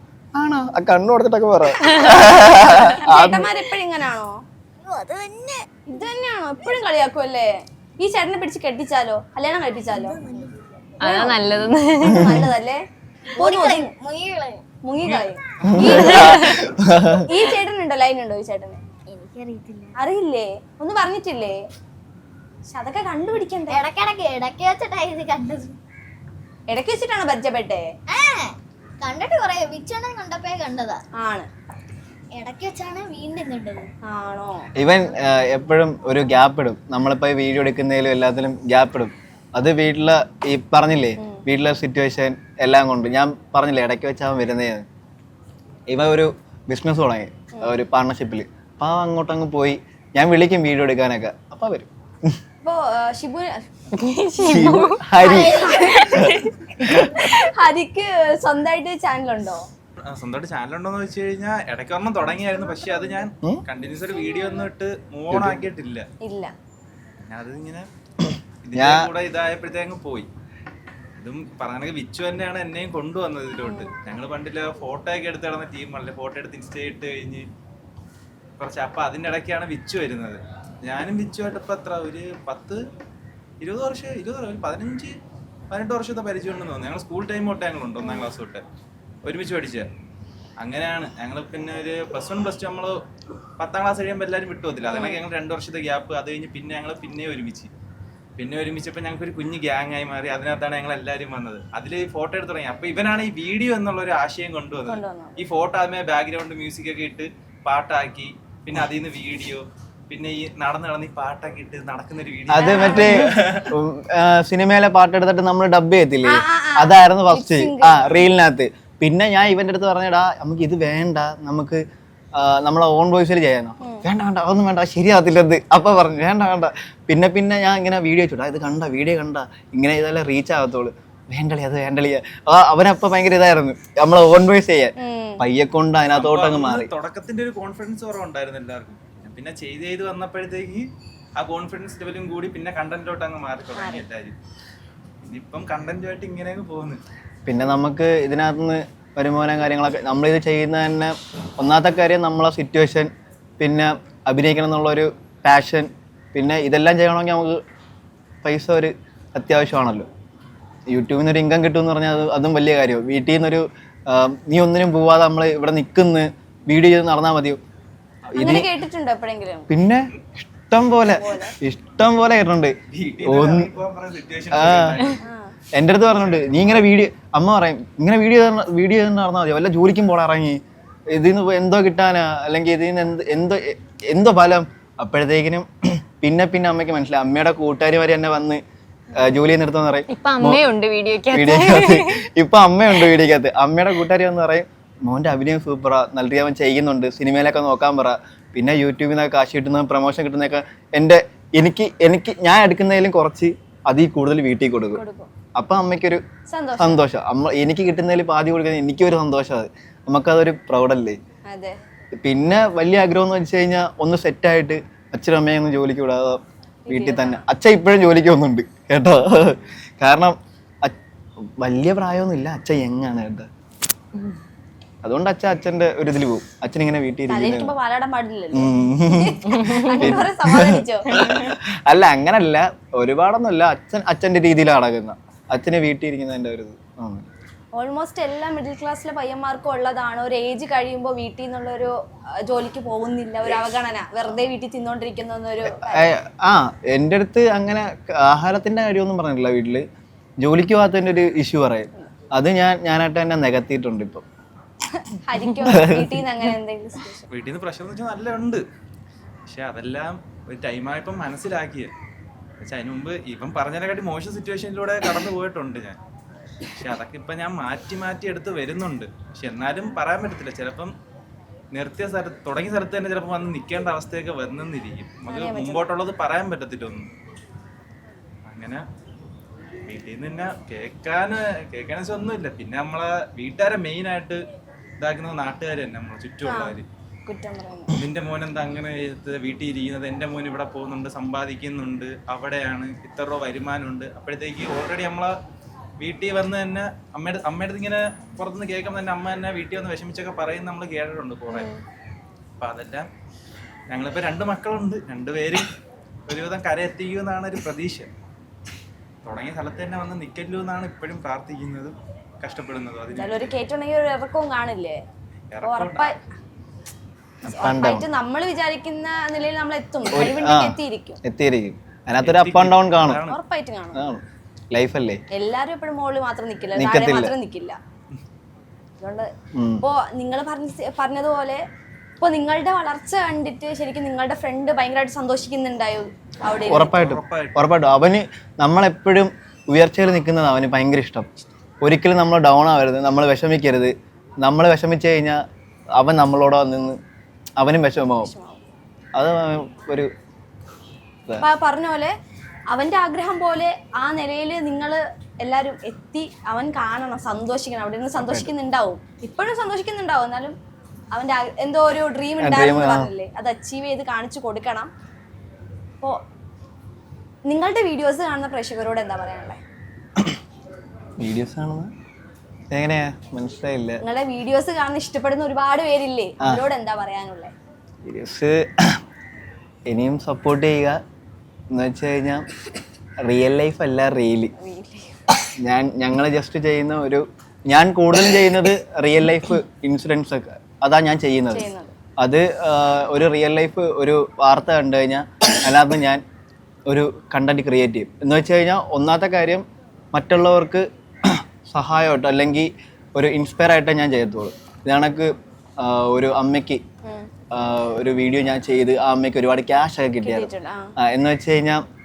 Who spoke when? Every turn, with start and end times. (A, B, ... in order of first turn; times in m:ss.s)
0:00.4-0:03.5 A
0:01.8-0:03.0 B
0:03.0-0:04.3 C
0:04.8-0:05.7 D
0:05.9-0:10.2 C
0:10.0-0:10.6 D
0:11.0-0:12.3 B
0:11.0-0:11.4 C
0:12.0-0:12.8 C
0:12.1-0:12.5 A
0:13.4-0:14.6 D
0:13.4-0:13.9 C
0:14.8-0:16.5 C
0:15.7-0:17.3 A
0:16.1-0:16.6 B
0:17.2-0:18.8 C
0:19.1-0:20.0 D
0:20.0-0:21.6 C
0:22.7-0:23.8 C
0:23.7-0:25.8 D
0:26.7-0:27.9 C
0:28.1-0:31.0 D
0:31.2-0:31.5 C
0:32.3-0:33.9 D
0:34.1-0:34.7 C
0:34.8-0:44.8 A
0:45.9-0:52.4 A
0:52.6-0:53.5 C
0:53.9-0:55.0 B
0:54.4-0:55.5 A
0:55.2-0:56.4 C
0:55.3-0:56.0 D
0:56.0-0:56.4 B
0:56.1-0:57.3 A
0:57.0-0:59.6 C
1:00.1-1:06.1 E
1:05.3-1:05.6 A
1:06.2-1:06.5 C
1:07.2-1:07.9 E
1:08.6-1:10.3 E
1:08.7-1:09.1 A
1:11.2-1:17.5 E
1:13.6-1:13.9 C
1:18.6-1:22.8 E
1:23.6-1:25.2 E
1:25.7-1:28.6 E
1:28.0-1:28.3 C
1:29.3-1:29.9 E
1:30.6-1:33.0 E
1:33.6-1:37.7 E
1:34.9-1:35.2 C
1:38.4-1:53.7 E
1:44.9-1:45.4 C
1:52.5-2:01.8 A
1:52.6-1:53.1 C
1:56.3-1:58.2 C
2:02.4-2:16.9 A
2:15.0-2:15.4 C
2:16.1-2:20.9 E
2:21.4-2:24.4 E
2:23.8-2:24.0 C
2:25.2-2:27.0 E
2:27.5-2:37.6 A
2:38.4-2:40.1 A
2:40.9-2:47.6 A
2:48.3-2:48.7 A
2:48.4-2:49.7 C
2:49.7-2:53.7 A
2:51.1-2:51.5 C
2:52.9-2:55.2 E
2:54.5-2:55.0 A
2:55.2-2:55.5 C
2:55.8-3:00.6 A
2:56.1-2:56.8 E
3:01.1-3:05.7 A
3:06.2-3:08.6 A
3:09.2-3:10.6 A
3:10.1-3:12.2 B
3:11.3-3:25.0 A
3:24.9-3:25.3 C
3:25.6-3:26.2 A
3:26.5-3:27.0 C
3:26.8-3:31.2 A
3:31.5-3:31.8 C
3:32.2-3:41.0 A
3:36.9-3:37.4 C
3:41.6-3:43.5 A
3:45.0-3:47.7 A
3:47.3-3:51.4 C
3:48.6-3:57.2 A
3:57.8-4:01.9 C
4:02.4-4:06.1 C
4:05.7-4:09.8 A
4:10.4-4:14.2 A
4:15.1-4:17.2 C
4:15.6-4:16.2 A
4:17.3-4:18.6 E
4:19.5-4:21.9 E
4:22.6-4:26.0 E
4:26.8-4:30.9 E
4:31.7-4:37.1 E
4:35.3-4:35.9 C
4:38.5-4:38.8 E
4:39.9-4:44.4 E
4:45.0-4:46.9 E
4:46.4-4:47.9 C
4:48.0-4:55.3 E
4:56.0-5:01.7 E
5:01.5-5:01.8 C
5:02.6-5:03.1 E
5:03.9-5:05.7 E
5:06.3-5:08.1 E
5:09.2-5:13.5 E
5:13.2-5:15.0 C
5:15.5-5:16.1 E
5:15.6-5:16.2 C
5:17.5-5:21.2 C
5:17.5-5:18.1 A
5:20.1-5:23.2 A
5:22.2-5:23.4 E
5:23.3-5:24.0 C
5:24.0-5:25.2 A
5:25.3-5:27.8 C
5:26.8-5:27.3 A
5:29.0-5:29.3 C
5:29.6-5:29.8 A
5:29.8-5:31.6 C
5:32.2-5:36.9 C
5:36.7-5:41.3 A
5:36.7-5:37.6 E
5:41.8-5:45.4 A
5:46.0-5:47.0 A
5:47.6-5:48.3 A
5:48.2-5:48.6 C
5:49.2-5:50.1 A
5:51.4-5:52.1 C
5:52.7-6:00.6 C
5:58.2-5:58.5 A
6:01.1-6:04.9 C
6:02.4-6:03.1 A
6:07.5-6:09.6 C
6:11.2-6:11.9 A
6:12.7-6:14.0 A
6:14.0-6:17.5 C
6:18.0-6:19.0 A
6:19.9-6:21.0 A
6:21.7-6:22.4 A
6:23.2-6:24.5 A
6:24.6-6:25.1 C
6:25.6-6:31.7 A
6:31.5-6:31.9 C
6:32.2-6:36.2 A
6:36.9-6:46.8 A
6:47.5-6:51.8 A
6:50.2-6:50.9 C